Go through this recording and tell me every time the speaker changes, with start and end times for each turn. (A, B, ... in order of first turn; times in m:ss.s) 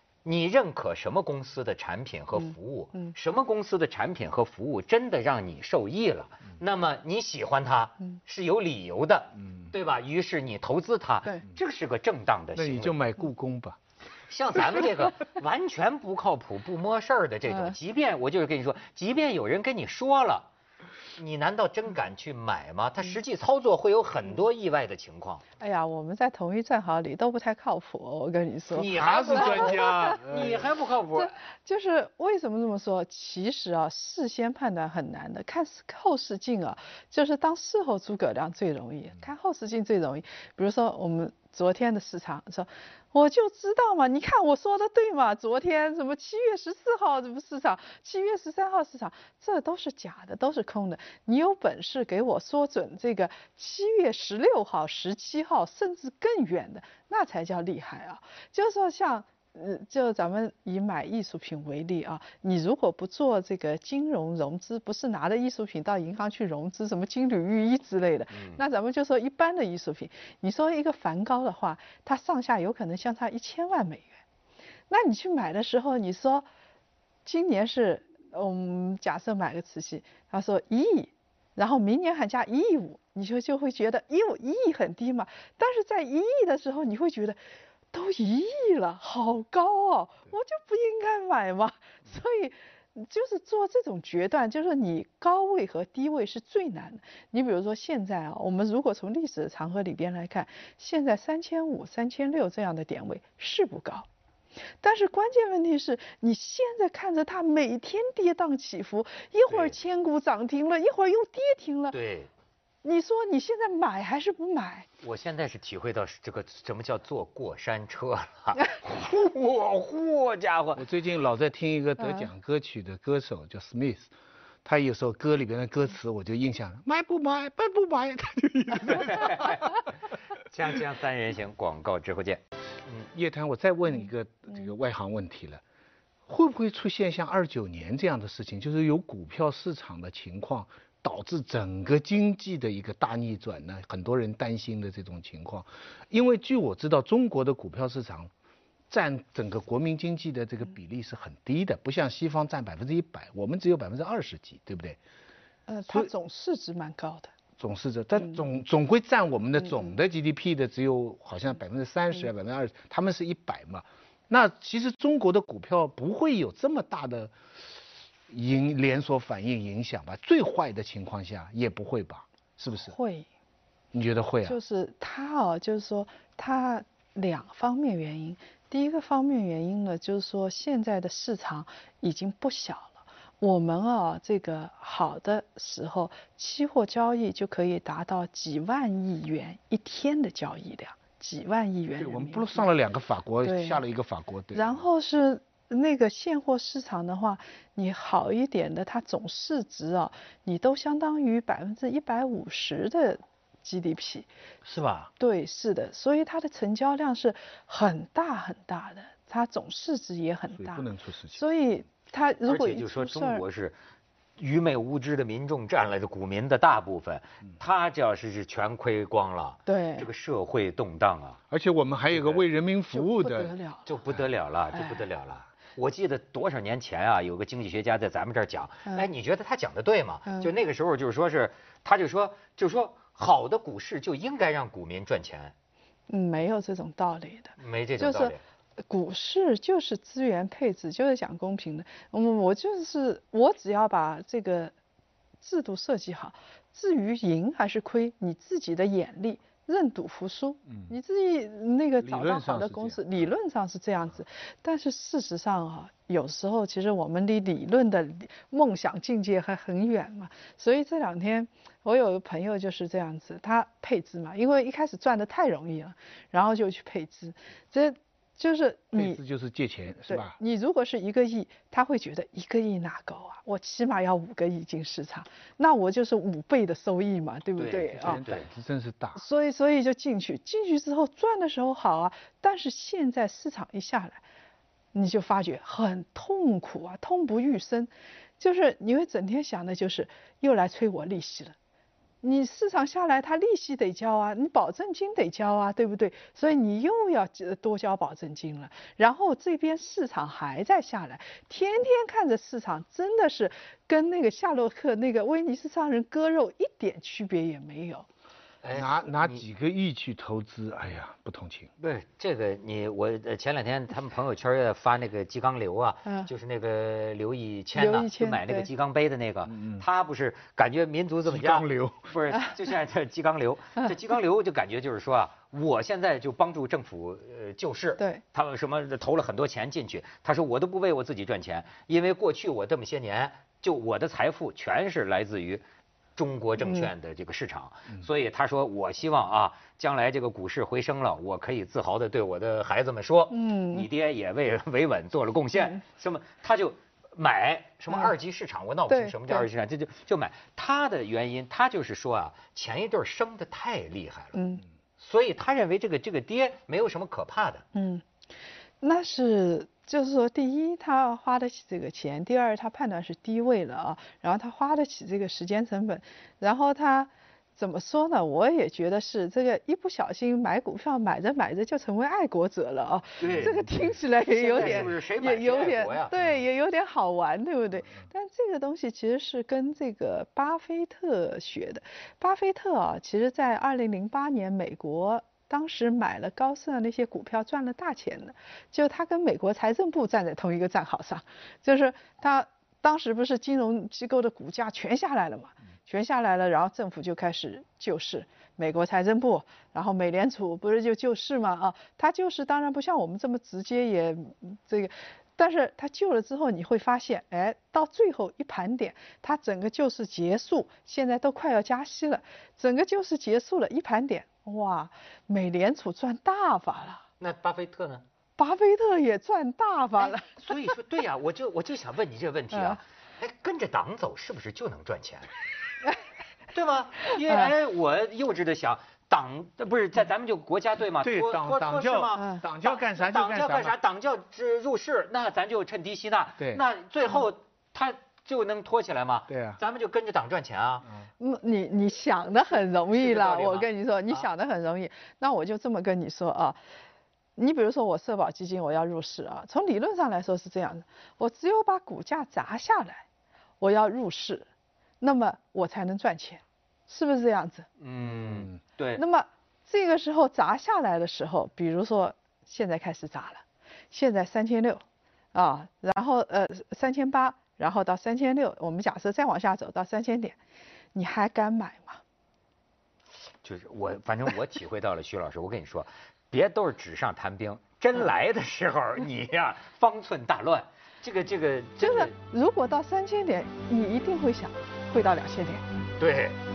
0:00.2-0:13.0 A
0:12.6-0:13.8 B
0:14.3-0:20.5 A
0:21.2-0:25.4 A
0:25.6-0:30.2 C
0:28.7-0:31.3 A
0:28.9-0:30.7 B
0:31.2-1:14.2 C
1:08.3-1:08.6 A
1:14.9-1:16.5 C
1:17.2-1:27.4 C
1:27.9-1:44.1 C
1:44.8-1:52.0 C
1:49.5-1:49.8 A
1:51.9-1:52.3 A
1:52.8-1:54.9 C
1:55.0-2:00.8 A
2:00.8-2:04.1 B
2:04.6-2:09.8 B
2:08.9-2:09.8 A
2:10.3-2:13.1 A
2:13.1-2:15.6 B
2:16.3-2:28.3 B
2:28.9-2:35.0 B
2:35.7-2:37.3 C
2:37.6-2:47.3 B
2:48.3-2:53.0 B
2:52.7-2:53.3 C
2:53.9-2:54.6 B
2:54.4-3:12.7 C
3:12.0-3:14.8 B
3:13.4-3:13.8 C
3:14.5-3:24.3 C
3:24.7-3:25.1 A
3:25.2-3:33.4 C
3:30.6-3:31.4 B
3:32.5-3:33.8 A
3:34.4-3:41.4 A
3:39.7-3:40.1 C
3:41.5-3:43.5 B
3:42.1-3:42.4 A
3:42.9-3:43.9 C
3:43.9-3:55.5 A
3:44.8-3:45.0 C
3:56.1-3:58.4 C
3:57.6-3:58.4 A
3:58.9-4:04.7 C
4:05.4-4:29.2 C
4:12.0-4:13.0 B
4:29.0-4:30.4 B
4:30.1-4:38.2 C
4:37.6-4:38.5 A
4:38.0-4:39.2 B
4:39.2-4:44.2 C
4:44.9-4:51.6 C
4:52.2-5:08.1 C
5:08.6-5:09.4 A
5:08.7-5:11.7 B
5:11.8-5:35.6 A
5:17.8-5:18.7 C
5:19.5-5:19.8 B
5:21.3-5:22.1 B
5:36.2-5:54.4 A
5:36.6-5:36.9 C
5:43.3-5:43.9 C
5:48.9-5:49.5 C
5:54.3-5:54.6 C
5:55.0-5:57.7 A
5:57.7-5:58.0 C
5:58.8-6:57.0 C
6:13.2-6:16.2 A
6:57.2-6:58.0 A
6:58.4-7:00.3 C
7:00.0-7:05.3 A
7:02.5-7:02.8 C
7:06.5-7:20.9 A
7:11.0-7:13.8 B
7:12.2-7:12.4 C
7:16.4-7:16.6 B
7:19.3-7:19.6 B
7:21.2-7:26.6 C
7:23.0-7:24.3 A
7:27.4-7:33.0 C
7:33.6-7:34.5 C
7:35.0-7:37.7 C
7:37.8-7:39.0 A
7:38.1-7:38.6 B
7:39.0-7:44.8 C
7:45.3-7:50.4 C
7:50.9-7:52.0 C
7:53.4-8:02.1 A
8:01.8-8:05.6 C
8:06.0-8:06.4 A